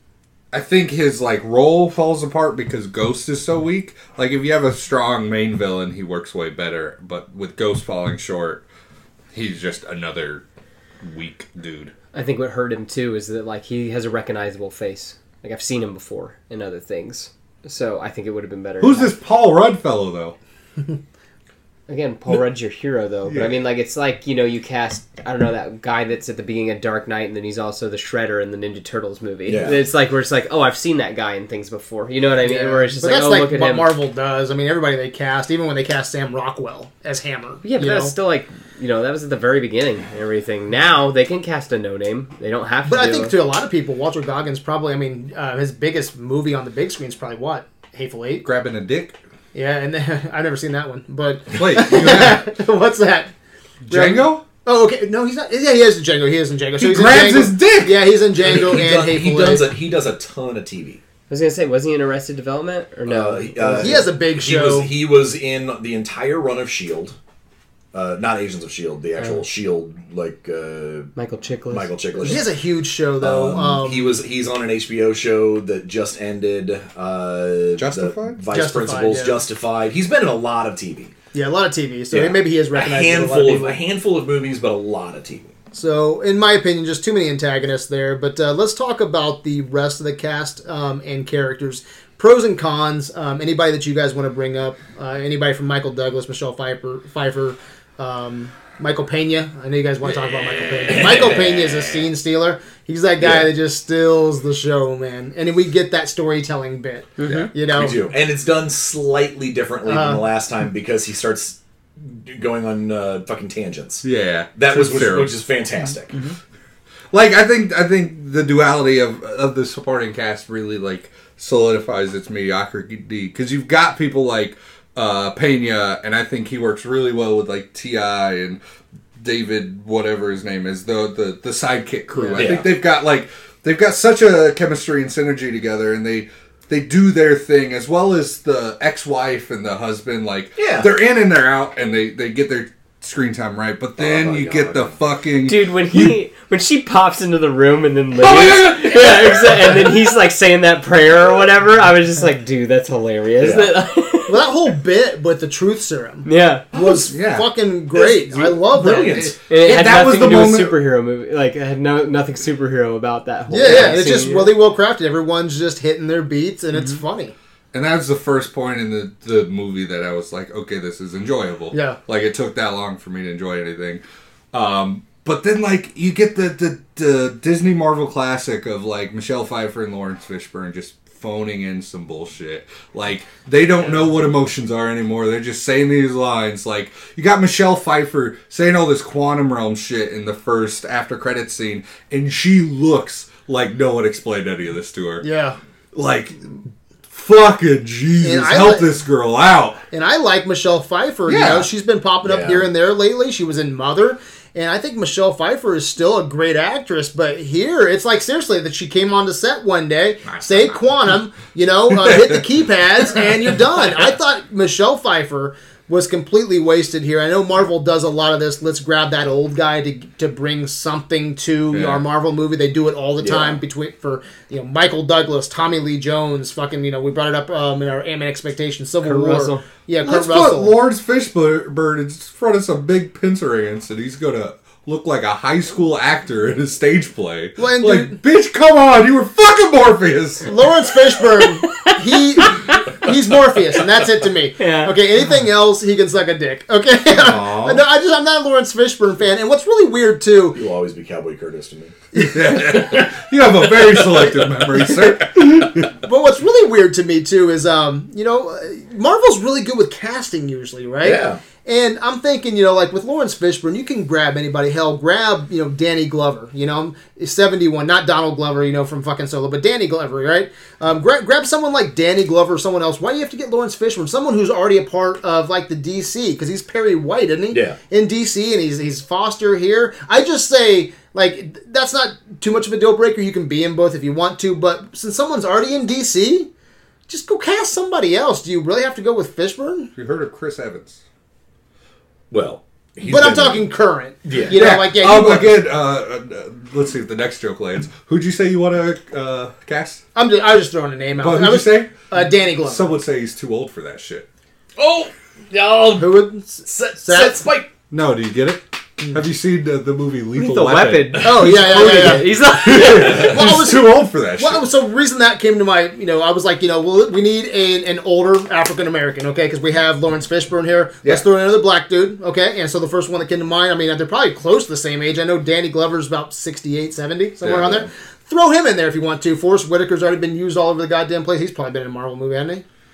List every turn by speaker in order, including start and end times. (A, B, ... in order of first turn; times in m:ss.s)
0:00.5-0:08.6 A
0:09.3-0:10.4 A
0:11.0-0:11.9 A
0:12.1-0:19.1 B
0:18.8-0:20.4 A
0:21.9-0:33.9 B
0:23.3-0:23.6 A
0:29.5-0:29.8 C
0:32.4-0:38.1 D
0:37.6-0:43.3 B
0:42.8-0:48.4 D
0:48.4-0:49.2 A
0:49.5-0:53.3 D
0:51.5-0:52.5 A
0:53.9-0:54.4 A
0:53.9-0:59.7 D
0:56.8-0:58.0 A
0:58.4-1:01.0 C
1:01.3-1:04.0 B
1:03.1-1:07.2 C
1:03.7-1:04.9 D
1:07.9-1:11.1 C
1:11.2-1:12.4 B
1:11.7-1:12.4 C
1:12.2-1:14.2 D
1:13.2-1:21.1 C
1:17.8-1:18.4 A
1:18.5-1:19.4 D
1:21.3-1:23.8 D
1:22.1-1:25.5 C
1:25.7-1:48.0 D
1:40.6-1:42.1 C
1:43.2-1:43.5 C
1:47.2-1:47.5 B
1:47.2-1:47.5 A
1:47.6-1:56.2 C
1:49.9-1:50.2 D
1:54.0-1:55.4 A
1:57.1-2:08.6 A
2:09.2-2:26.2 A
2:12.4-2:12.7 C
2:20.6-2:20.9 C
2:24.0-2:25.0 C
2:25.5-2:34.4 B
2:28.2-2:28.9 A
2:28.3-2:29.6 C
2:33.4-2:33.7 C
2:34.3-2:39.3 D
2:36.2-2:36.7 B
2:37.1-2:37.5 A
2:38.0-2:39.4 C
2:39.1-2:40.8 A
2:39.5-2:44.5 B
2:43.5-2:47.3 D
2:47.7-2:54.0 A
2:51.7-2:52.0 D
2:54.5-3:15.2 A
3:15.2-3:15.6 D
3:15.9-3:16.5 A
3:17.1-3:19.8 A
3:18.2-3:19.0 D
3:19.9-3:50.8 D
3:21.3-3:21.7 A
3:22.2-3:22.7 C
3:32.0-3:32.4 A
3:41.7-3:42.0 A
3:43.2-3:43.6 C
3:49.0-3:49.6 B
3:50.0-4:00.5 A
3:57.6-3:58.2 D
4:00.5-4:10.6 D
4:01.4-4:02.9 B
4:04.6-4:04.9 B
4:07.1-4:07.8 A
4:10.6-4:12.0 C
4:12.2-4:15.9 A
4:16.0-4:46.5 D
4:21.0-4:21.4 C
4:37.5-4:37.8 C
4:47.1-4:49.9 D
4:50.0-4:51.0 A
4:52.3-4:53.7 C
4:53.1-4:55.6 D
4:54.2-4:54.6 C
4:54.5-5:00.0 A
5:00.2-5:02.9 D
5:01.2-5:04.3 A
5:04.8-5:07.7 C
5:06.0-5:07.4 D
5:07.9-5:14.6 A
5:10.4-5:13.4 B
5:11.2-5:32.6 D
5:27.4-5:27.9 C